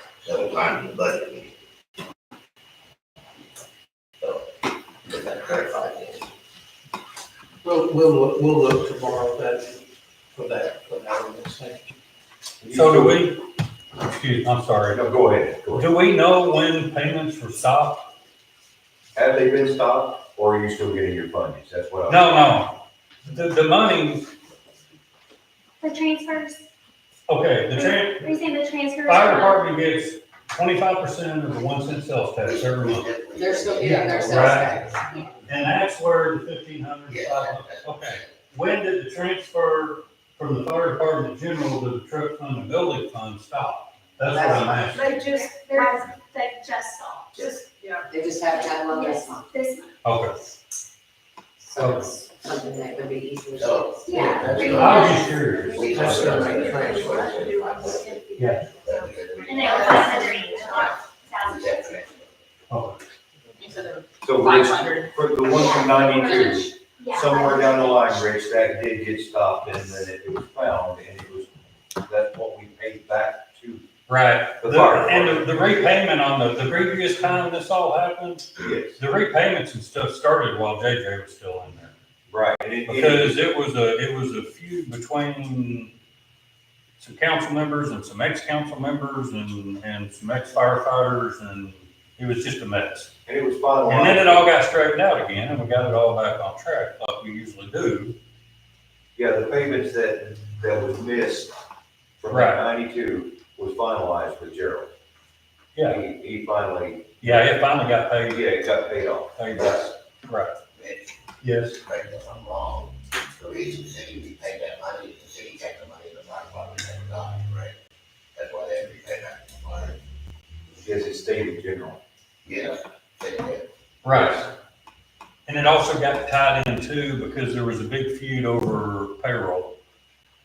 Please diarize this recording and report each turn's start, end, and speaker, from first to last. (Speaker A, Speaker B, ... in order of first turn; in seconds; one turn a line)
Speaker A: 0.2-1.5
Speaker A: 5.1-6.3
Speaker B: 7.6-9.8
Speaker B: 10.3-11.9
Speaker C: 12.6-13.3
Speaker D: 12.7-13.4
Speaker D: 14.0-15.0
Speaker C: 14.9-15.9
Speaker D: 15.7-18.1
Speaker C: 19.1-22.3
Speaker D: 22.1-24.3
Speaker E: 25.8-26.6
Speaker D: 27.3-28.3
Speaker E: 27.7-29.7
Speaker D: 29.0-33.1
Speaker A: 32.4-34.9
Speaker F: 33.3-35.2
Speaker D: 33.8-34.8
Speaker B: 34.1-34.7
Speaker D: 35.5-45.3
Speaker A: 37.1-38.3
Speaker F: 44.2-44.9
Speaker G: 44.9-46.1
Speaker E: 45.0-47.4
Speaker G: 47.3-48.1
Speaker F: 48.1-49.5
Speaker E: 48.5-49.9
Speaker D: 50.0-50.4
Speaker F: 51.7-54.8
Speaker D: 51.7-52.2
Speaker A: 53.6-58.2
Speaker E: 54.0-56.4
Speaker D: 54.6-56.5
Speaker G: 55.8-60.1
Speaker B: 55.9-56.8
Speaker F: 56.2-56.8
Speaker D: 58.4-58.7
Speaker A: 58.8-62.3
Speaker E: 59.4-62.1
Speaker G: 60.6-60.9
Speaker D: 62.7-63.0
Speaker F: 63.6-64.0
Speaker C: 64.2-71.5
Speaker F: 64.7-65.0
Speaker E: 65.5-68.2
Speaker C: 72.0-73.8
Speaker D: 74.1-81.9
Speaker C: 74.6-75.5
Speaker C: 78.6-79.0
Speaker C: 82.3-83.4
Speaker D: 82.8-85.9
Speaker D: 87.0-93.1
Speaker C: 93.2-94.5
Speaker D: 93.8-98.2
Speaker C: 99.2-101.5
Speaker C: 102.2-104.9
Speaker D: 102.3-102.6
Speaker D: 105.7-106.0
Speaker C: 105.8-107.1
Speaker D: 107.2-108.5
Speaker C: 108.3-109.9
Speaker D: 109.3-110.5
Speaker A: 110.8-111.1
Speaker D: 111.4-111.8
Speaker A: 111.8-117.7
Speaker A: 118.3-120.0
Speaker C: 120.8-122.0
Speaker A: 122.5-123.6
Speaker D: 124.0-124.5
Speaker C: 124.1-124.4
Speaker D: 125.5-129.8